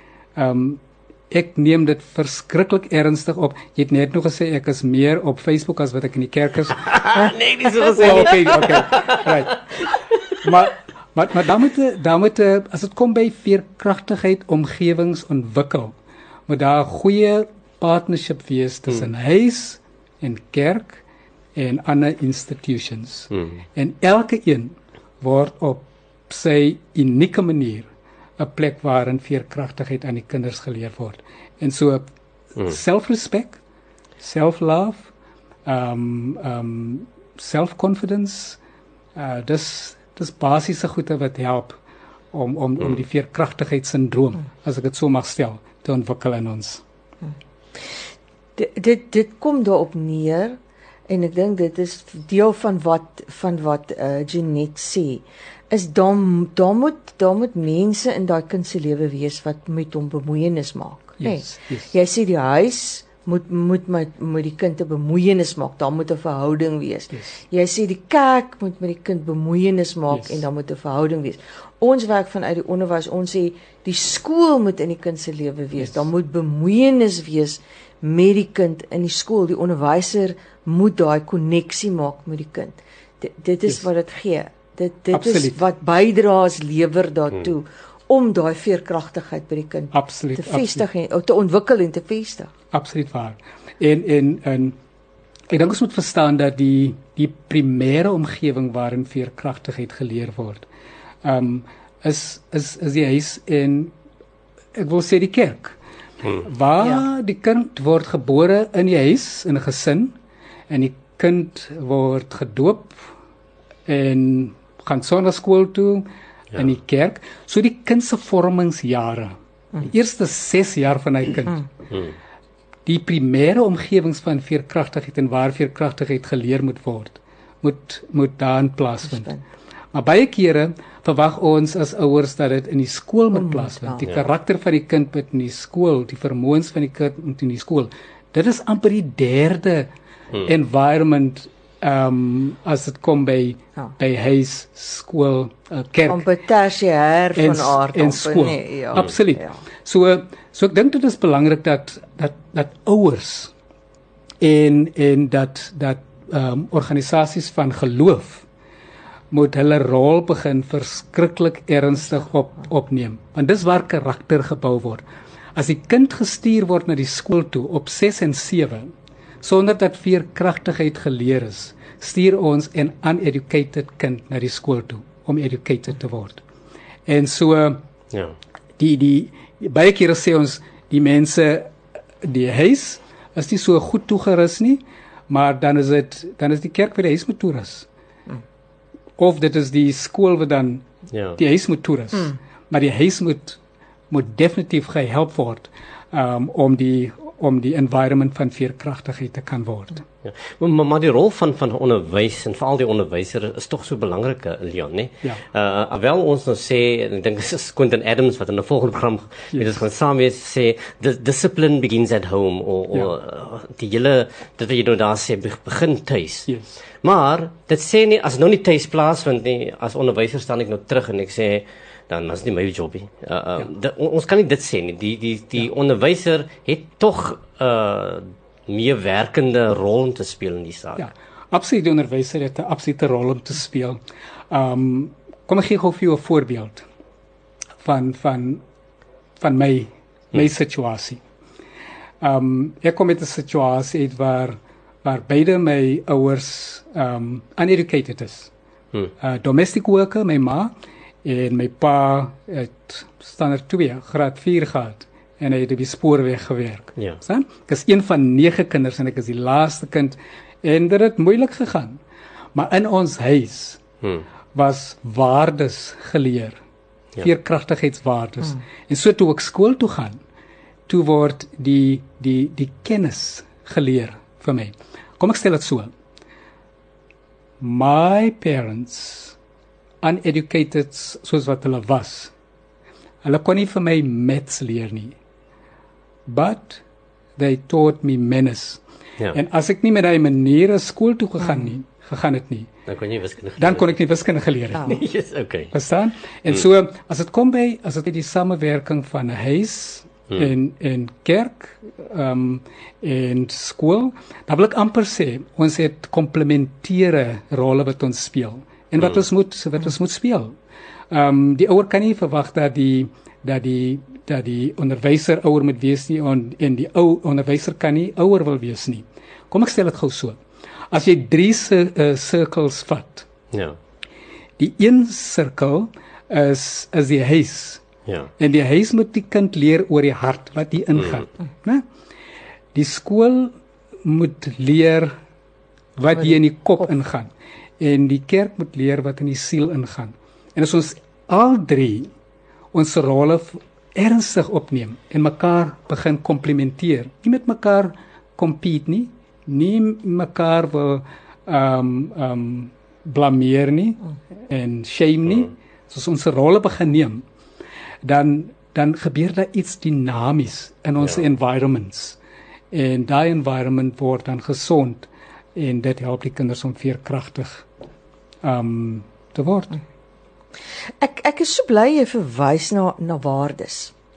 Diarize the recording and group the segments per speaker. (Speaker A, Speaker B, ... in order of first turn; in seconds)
Speaker A: 0.3-6.9, 7.8-9.7, 10.4-15.9, 16.5-21.0, 21.6-32.0, 32.6-33.6, 34.2-35.1, 35.6-38.6, 39.1-41.8, 42.3-46.8, 61.2-61.9, 70.1-70.4, 85.1-85.6, 89.9-90.8, 92.7-94.8, 95.5-100.7, 101.2-103.9, 104.7-105.8, 106.4-110.2, 110.7-113.0, 113.8-121.6, 122.8-129.3, 129.9-146.2, 147.3-153.5, 154.4-158.5, 159.3-165.0, 165.5-176.4, 177.1-177.8, 178.8-187.9, 189.2-190.8, 191.4-193.6, 194.1-200.0, 216.5-216.8, 231.0-236.8, 237.8-238.6, 239.4-241.2, 242.2-248.5, 249.2-262.0, 262.5-263.8, 264.5-266.6, 267.2-270.2, 270.9-275.9, 277.6-279.4, 280.0-282.3, 283.2-285.1, 286.2-286.8, 287.4-288.8, 289.3-292.7, 293.6-295.0, 295.7-310.6, 311.1-320.4, 320.9-323.3, 324.6-327.8, 328.4-331.9, 332.7-335.1, 336.0-342.1, 342.7-357.2, 358.0-362.2, 362.7-367.7, 368.4-369.8
Speaker B: 6.8-9.2, 178.1-178.3, 191.1-191.4, 200.2-216.5, 217.0-231.1, 292.9-293.9, 294.8-295.7, 323.5-323.8, 328.1-328.3
Speaker C: 48.6-92.5, 129.1-129.4, 133.5-134.0, 146.1-149.6, 371.0-373.9